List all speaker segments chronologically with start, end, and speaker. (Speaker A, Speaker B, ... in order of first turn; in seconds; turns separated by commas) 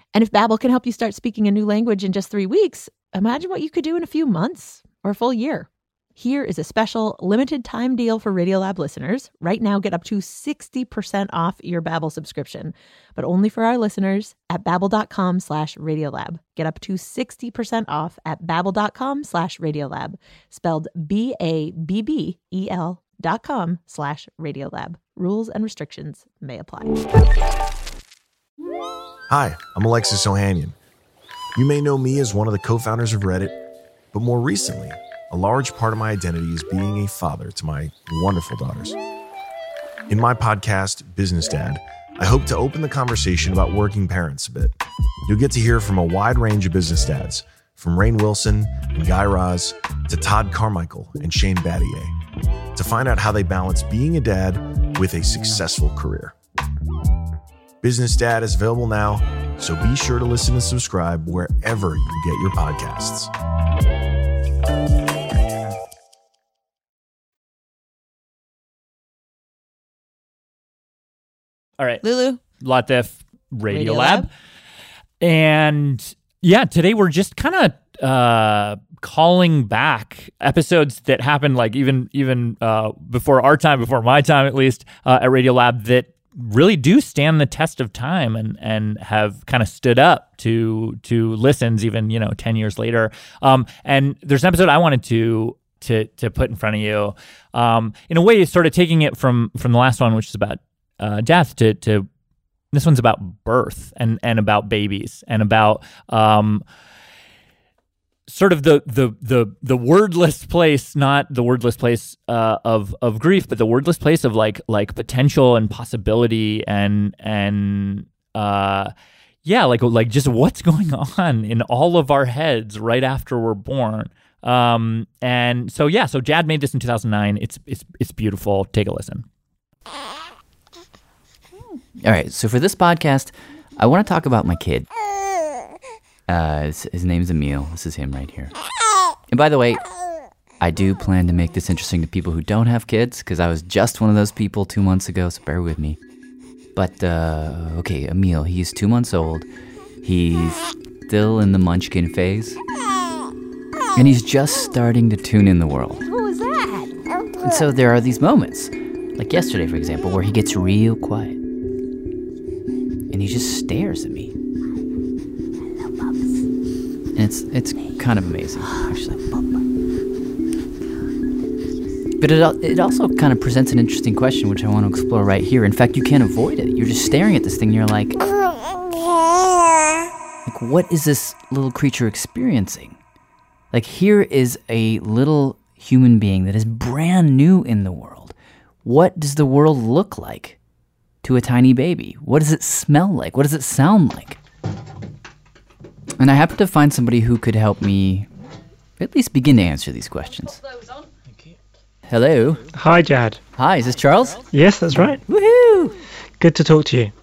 Speaker A: 0.1-27.0, Speaker B: 29.3-30.8, Speaker B: 31.6-33.5, Speaker B: 34.1-39.0, Speaker B: 40.1-44.7, Speaker B: 45.3-52.1, Speaker B: 52.8-56.3, Speaker B: 57.8-63.3, Speaker A: 72.0-72.4, Speaker C: 72.6-74.3, Speaker A: 73.7-74.3, Speaker C: 75.2-102.1, Speaker C: 102.7-106.7, Speaker C: 108.3-118.9, Speaker C: 119.5-129.2, Speaker D: 132.0-134.9, Speaker D: 136.3-138.5, Speaker D: 139.3-139.9, Speaker D: 140.6-146.0, Speaker D: 146.8-149.5, Speaker D: 150.0-152.6, Speaker D: 153.9-156.1, Speaker A: 156.2-156.9, Speaker D: 157.4-161.4, Speaker D: 163.1-164.3, Speaker D: 167.2-169.4, Speaker D: 172.2-178.2, Speaker D: 180.5-183.0, Speaker D: 183.7-190.6, Speaker D: 191.2-194.4, Speaker D: 196.2-198.3, Speaker D: 199.0-200.7, Speaker D: 202.1-202.7, Speaker E: 202.7-203.4, Speaker D: 203.5-204.5, Speaker E: 204.5-205.2, Speaker D: 205.3-206.0, Speaker E: 206.4-207.1